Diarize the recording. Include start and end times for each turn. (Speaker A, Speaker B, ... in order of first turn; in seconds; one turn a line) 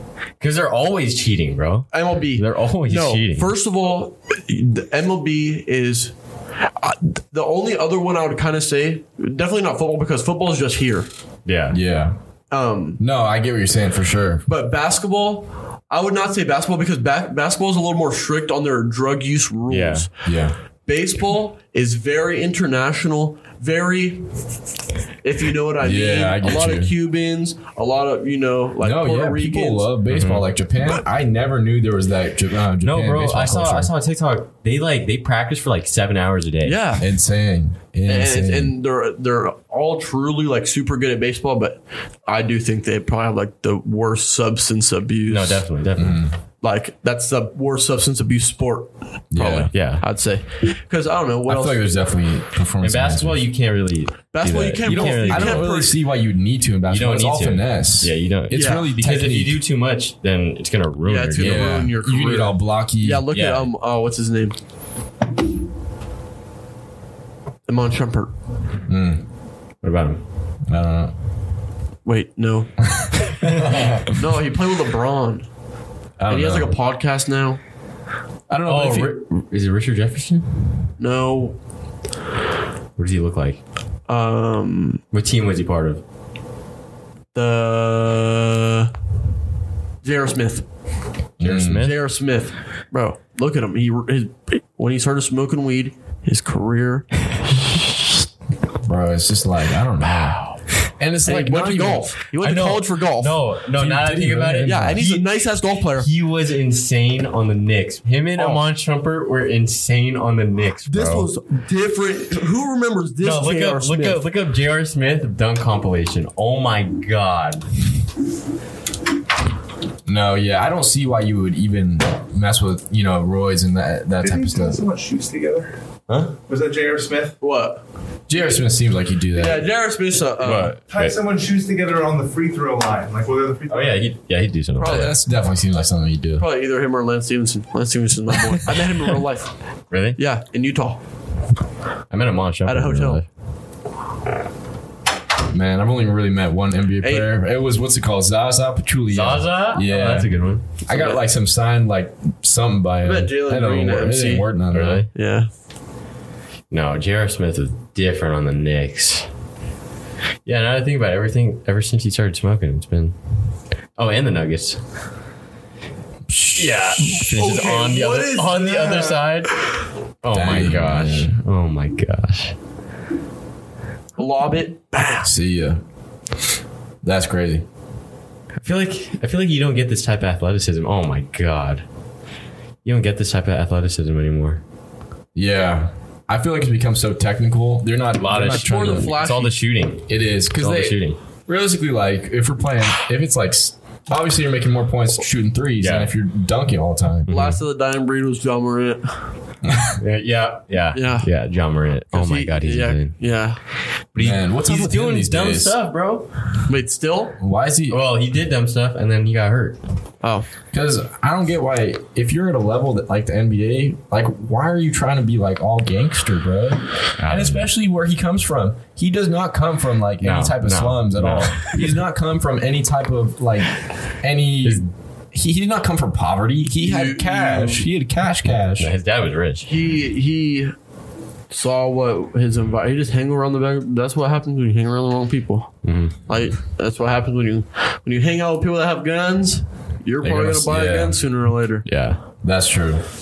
Speaker A: 0.4-3.5
Speaker B: 1.9-6.1
Speaker B: 6.8-11.1
Speaker A: 11.4-11.8
Speaker C: 11.7-12.2
Speaker B: 12.5-13.0
Speaker C: 13.0-14.4
Speaker B: 14.5-20.1
Speaker A: 19.7-20.1
Speaker C: 20.2-20.6
Speaker B: 20.9-24.3
Speaker B: 25.2-29.9
Speaker C: 25.8-26.9
Speaker C: 28.8-33.9
Speaker A: 30.1-30.5
Speaker A: 32.8-36.8
Speaker B: 36.6-37.1
Speaker C: 37.0-38.7
Speaker B: 38.1-45.7
Speaker A: 45.3-46.2
Speaker C: 46.0-46.4
Speaker B: 46.6-51.8
Speaker C: 49.3-49.7
Speaker A: 49.7-50.0
Speaker C: 51.5-53.4
Speaker A: 52.8-55.7
Speaker B: 54.3-56.0
Speaker C: 54.9-59.6
Speaker A: 56.9-61.9
Speaker B: 58.5-58.9
Speaker B: 61.0-64.6
Speaker C: 61.4-63.2
Speaker A: 63.3-63.7
Speaker B: 67.7-68.3
Speaker C: 68.9-69.2
Speaker A: 69.8-70.2
Speaker C: 70.7-71.1
Speaker B: 72.0-72.7
Speaker C: 72.8-74.0
Speaker A: 73.4-74.0
Speaker B: 74.1-75.5
Speaker C: 76.2-76.7
Speaker B: 76.3-77.6
Speaker C: 78.5-79.2
Speaker A: 78.7-80.9
Speaker B: 81.0-81.6
Speaker A: 83.0-83.6
Speaker B: 84.1-85.0
Speaker A: 85.1-86.0
Speaker B: 87.3-88.9
Speaker B: 90.0-90.7
Speaker C: 91.4-91.9
Speaker A: 91.4-92.0
Speaker B: 91.5-97.2
Speaker C: 98.9-100.4
Speaker A: 100.0-100.6
Speaker C: 101.0-102.1
Speaker B: 101.2-103.4
Speaker A: 102.4-111.3
Speaker C: 103.7-105.0
Speaker B: 104.7-106.1
Speaker B: 108.4-108.6
Speaker B: 110.9-114.2
Speaker A: 113.2-117.7
Speaker C: 120.1-124.8
Speaker D: 124.2-125.7
Speaker A: 126.1-126.3
Speaker D: 126.5-127.4
Speaker B: 127.4-127.8
Speaker C: 128.3-129.7
Speaker B: 129.3-130.8
Speaker A: 130.4-131.2
Speaker C: 130.5-130.8
Speaker D: 130.9-134.1
Speaker A: 133.7-135.1
Speaker B: 134.8-135.1
Speaker C: 134.8-136.4
Speaker B: 136.4-139.5
Speaker A: 139.9-140.2
Speaker B: 140.2-141.0
Speaker A: 142.1-143.3
Speaker B: 142.7-143.2
Speaker C: 145.5-155.1
Speaker B: 147.0-147.3
Speaker A: 149.1-150.7
Speaker B: 150.9-151.2
Speaker B: 153.0-154.5
Speaker A: 154.7-155.1
Speaker B: 155.1-155.5
Speaker A: 156.7-159.3
Speaker A: 160.4-163.2
Speaker A: 163.9-164.8
Speaker C: 166.3-166.8
Speaker A: 166.6-169.5
Speaker B: 167.0-169.3
Speaker A: 170.2-172.6
Speaker C: 170.3-171.4
Speaker B: 174.2-175.3
Speaker C: 175.2-175.8
Speaker C: 177.0-177.6
Speaker A: 178.6-181.8
Speaker A: 182.8-184.6
Speaker C: 185.3-189.1
Speaker A: 188.2-191.2
Speaker B: 188.3-189.6
Speaker C: 190.1-197.3
Speaker A: 195.8-196.1
Speaker A: 197.3-197.6
Speaker B: 197.3-199.2
Speaker C: 199.6-199.9
Speaker A: 200.0-203.2
Speaker B: 200.9-201.3
Speaker B: 202.1-203.6
Speaker A: 204.1-206.4
Speaker C: 204.2-205.8
Speaker B: 206.7-207.4
Speaker C: 207.4-208.0
Speaker A: 207.9-209.8
Speaker C: 210.7-228.9
Speaker A: 217.2-217.7
Speaker A: 220.2-221.9
Speaker A: 224.6-224.9
Speaker B: 226.8-227.9
Speaker A: 228.8-229.7
Speaker B: 229.6-230.7
Speaker B: 231.5-241.9
Speaker A: 235.8-236.2
Speaker C: 240.2-241.2
Speaker A: 241.8-242.2
Speaker C: 242.4-243.0